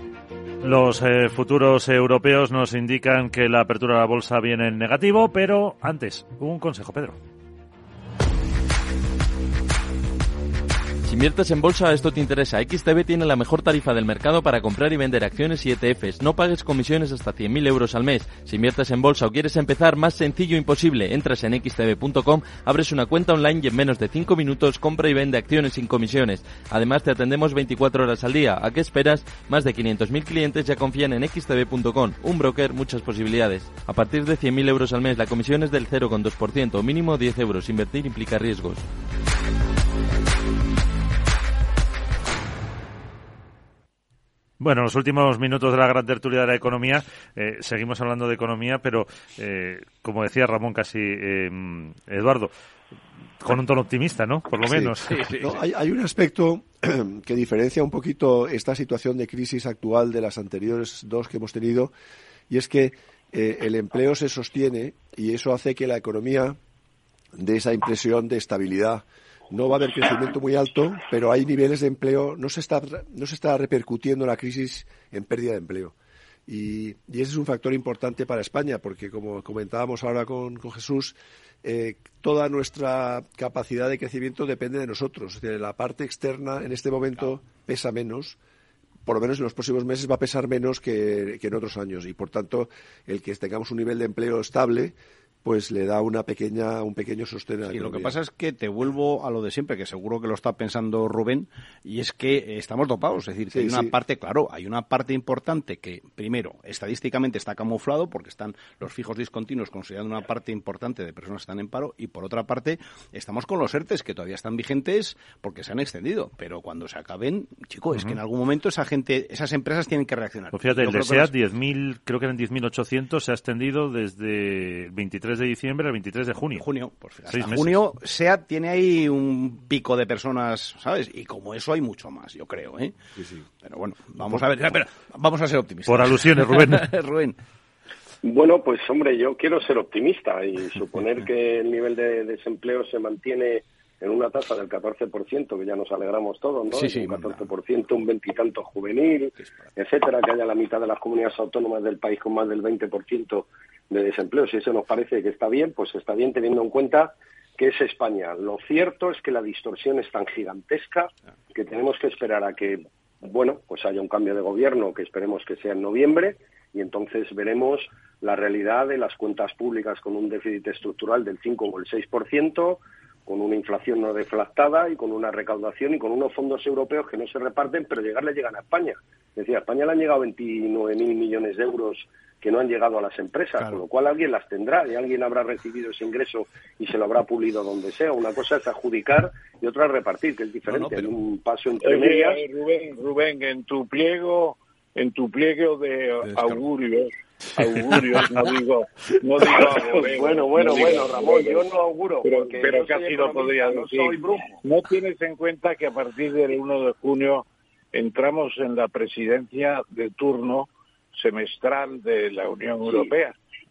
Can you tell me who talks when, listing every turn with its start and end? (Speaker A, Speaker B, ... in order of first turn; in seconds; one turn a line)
Speaker A: 0.6-7.2
Speaker B: 11.1-38.9
Speaker A: 44.6-52.5
Speaker A: 53.4-55.2
Speaker C: 54.6-61.9
Speaker D: 55.1-55.5
Speaker C: 62.5-66.6
Speaker C: 67.4-75.9
Speaker C: 76.5-88.4
Speaker C: 89.0-98.2
Speaker D: 97.7-121.3
Speaker C: 103.5-104.0
Speaker A: 120.5-126.7
Speaker D: 126.5-132.9
Speaker A: 127.3-127.8
Speaker C: 133.2-133.5
Speaker D: 133.6-137.4
Speaker A: 135.9-136.9
Speaker E: 138.2-192.4
Speaker D: 146.7-147.5
Speaker D: 149.4-149.7
Speaker D: 183.6-183.8
Speaker D: 190.7-191.1
Speaker F: 191.8-201.6
Speaker D: 196.2-196.6
Speaker E: 199.5-204.6
Speaker F: 202.2-213.3
Speaker E: 212.8-213.1